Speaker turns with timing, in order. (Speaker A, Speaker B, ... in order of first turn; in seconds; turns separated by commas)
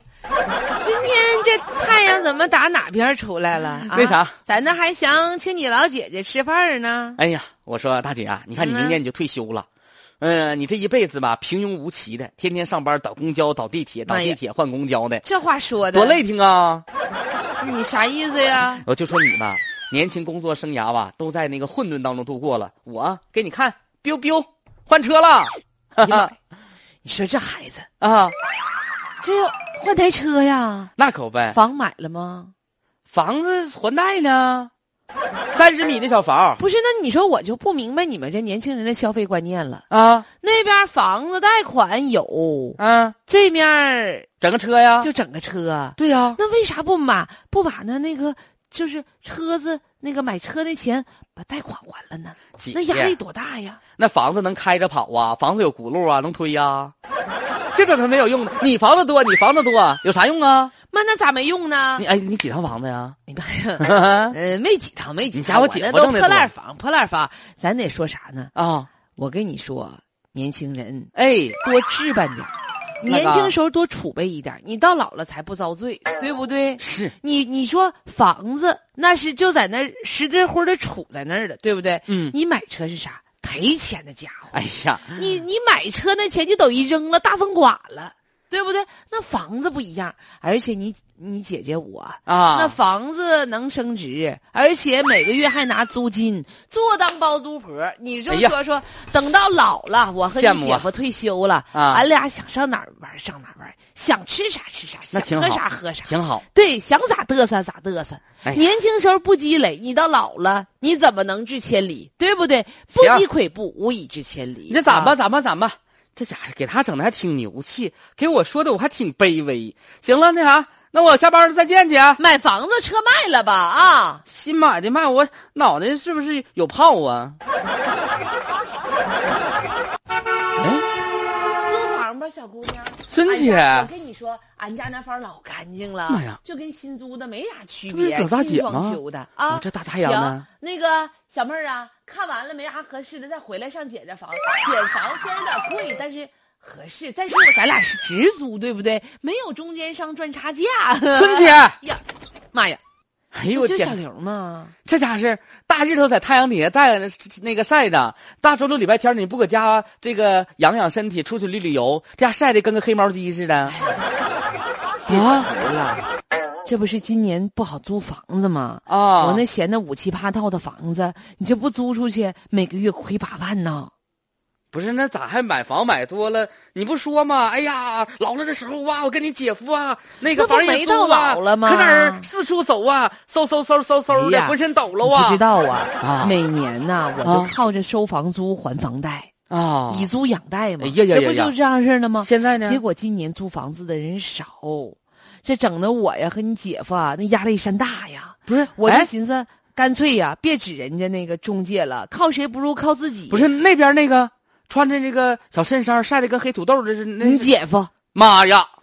Speaker A: 0.8-7.2, Speaker B: 3.9-4.3, Speaker B: 7.2-9.7, Speaker A: 8.6-9.0, Speaker B: 10.2-15.2, Speaker A: 14.1-14.4, Speaker A: 15.2-16.2, Speaker B: 15.9-16.8, Speaker A: 17.6-18.9, Speaker B: 18.8-26.3, Speaker A: 26.0-26.4, Speaker A: 27.0-27.9, Speaker B: 28.0-28.3, Speaker A: 29.2-30.9, Speaker B: 31.0-31.6, Speaker A: 31.5-32.5, Speaker B: 33.1-34.7, Speaker B: 35.5-36.6, Speaker A: 36.6-39.9, Speaker B: 39.9-40.3, Speaker A: 40.4-44.3, Speaker B: 42.8-43.1, Speaker B: 44.4-45.1, Speaker A: 45.0-53.8, Speaker B: 46.0-46.4, Speaker B: 52.6-53.2, Speaker B: 54.0-56.9, Speaker B: 57.7-60.7, Speaker A: 60.9-62.0, Speaker B: 62.0-63.2, Speaker A: 63.3-68.5, Speaker B: 63.8-64.3, Speaker B: 65.3-66.5, Speaker B: 68.5-68.9, Speaker A: 69.2-84.6, Speaker B: 71.1-71.6, Speaker B: 73.0-73.5, Speaker B: 76.8-77.1, Speaker B: 82.1-82.3, Speaker B: 84.5-85.4, Speaker A: 85.1-115.2, Speaker B: 92.2-92.8, Speaker B: 98.3-98.5, Speaker B: 100.3-100.9, Speaker B: 101.7-102.1, Speaker B: 105.1-106.4, Speaker B: 112.9-113.2, Speaker B: 114.7-122.2, Speaker A: 122.2-124.2, Speaker B: 124.3-127.4, Speaker B: 130.6-130.8, Speaker A: 131.6-152.8, Speaker B: 133.1-133.9, Speaker B: 136.1-136.4, Speaker B: 137.9-140.5, Speaker B: 151.1-151.8, Speaker B: 153.3-154.0, Speaker A: 153.5-154.7, Speaker B: 154.8-163.8, Speaker A: 163.7-164.0, Speaker A: 165.1-166.1, Speaker B: 165.1-165.5, Speaker A: 166.6-173.9, Speaker B: 168.9-169.4, Speaker B: 174.7-185.4, Speaker A: 180.2-182.3, Speaker A: 184.1-189.3, Speaker B: 186.0-186.4, Speaker B: 187.2-187.5, Speaker B: 189.5-190.1, Speaker A: 189.9-203.5, Speaker B: 190.8-191.5, Speaker B: 192.2-192.8, Speaker B: 198.5-199.1, Speaker B: 203.3-207.5, Speaker A: 207.2-207.9, Speaker B: 208.1-208.7